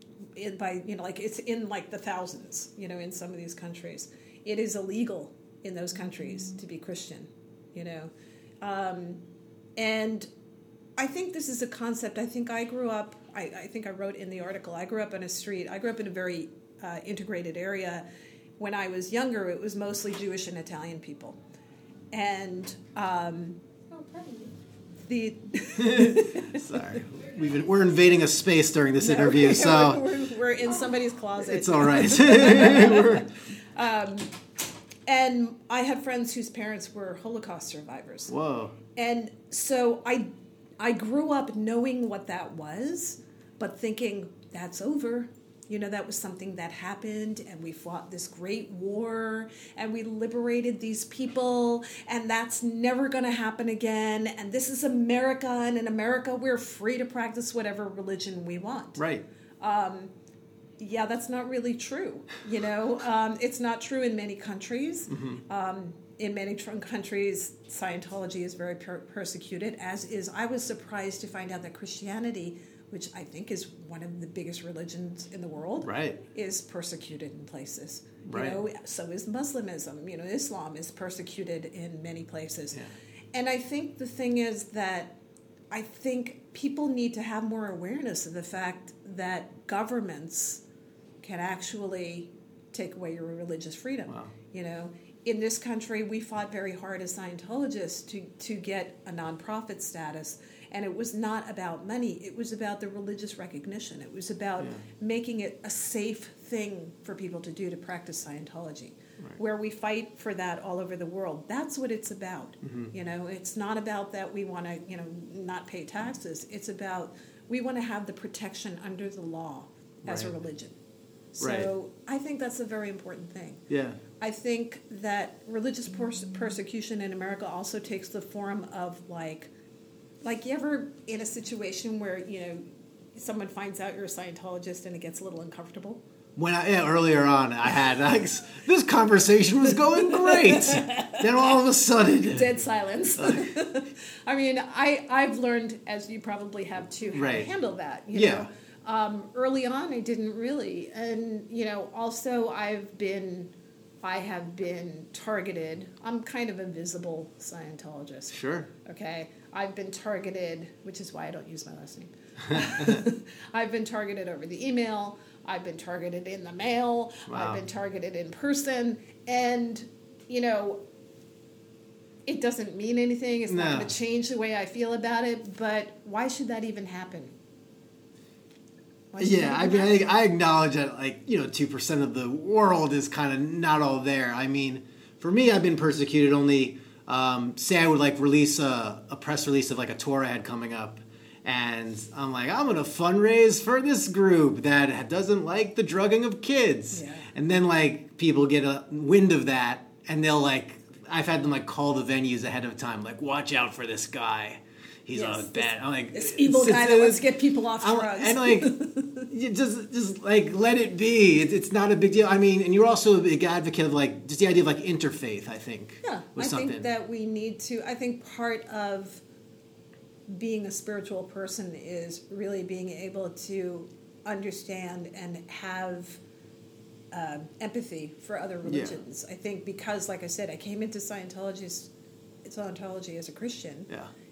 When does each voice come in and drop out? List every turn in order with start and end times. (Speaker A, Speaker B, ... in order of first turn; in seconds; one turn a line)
Speaker A: 0.4-8.1
Speaker A: 8.6-9.2
Speaker A: 9.8-10.3
Speaker A: 11.0-18.1
Speaker A: 18.6-21.4
Speaker A: 22.1-24.5
Speaker A: 25.1-27.0
Speaker B: 25.8-30.1
Speaker A: 29.0-34.3
Speaker B: 31.4-33.3
Speaker A: 35.1-38.3
Speaker B: 38.3-38.8
Speaker A: 39.0-40.3
Speaker A: 40.8-59.0
Speaker B: 59.0-59.2
Speaker A: 59.6-60.1
Speaker A: 60.8-82.8
Speaker B: 65.1-65.4
Speaker B: 75.8-76.2
Speaker B: 78.2-78.6
Speaker A: 83.3-85.2
Speaker A: 85.7-90.6
Speaker A: 91.2-120.8
Speaker B: 94.1-94.3
Speaker B: 112.6-112.9
Speaker B: 120.0-120.3
Speaker A: 121.4-123.6
Speaker B: 121.4-121.7
Speaker B: 123.7-124.0
Speaker A: 124.2-129.5
Speaker A: 130.2-136.0
Speaker B: 136.4-142.5
Speaker A: 140.0-141.2
Speaker A: 142.3-170.8
Speaker B: 147.1-147.5
Speaker B: 148.1-148.5
Speaker B: 158.3-158.7
Speaker B: 167.3-167.6
Speaker A: 172.3-177.3
Speaker B: 173.5-173.9
Speaker A: 179.1-180.1
Speaker B: 179.2-208.7
Speaker A: 196.9-197.3
Speaker A: 205.1-209.3
Speaker B: 209.3-216.9
Speaker A: 216.0-219.2
Speaker A: 220.3-226.2
Speaker A: 227.1-231.9
Speaker B: 228.7-229.0
Speaker A: 232.4-233.9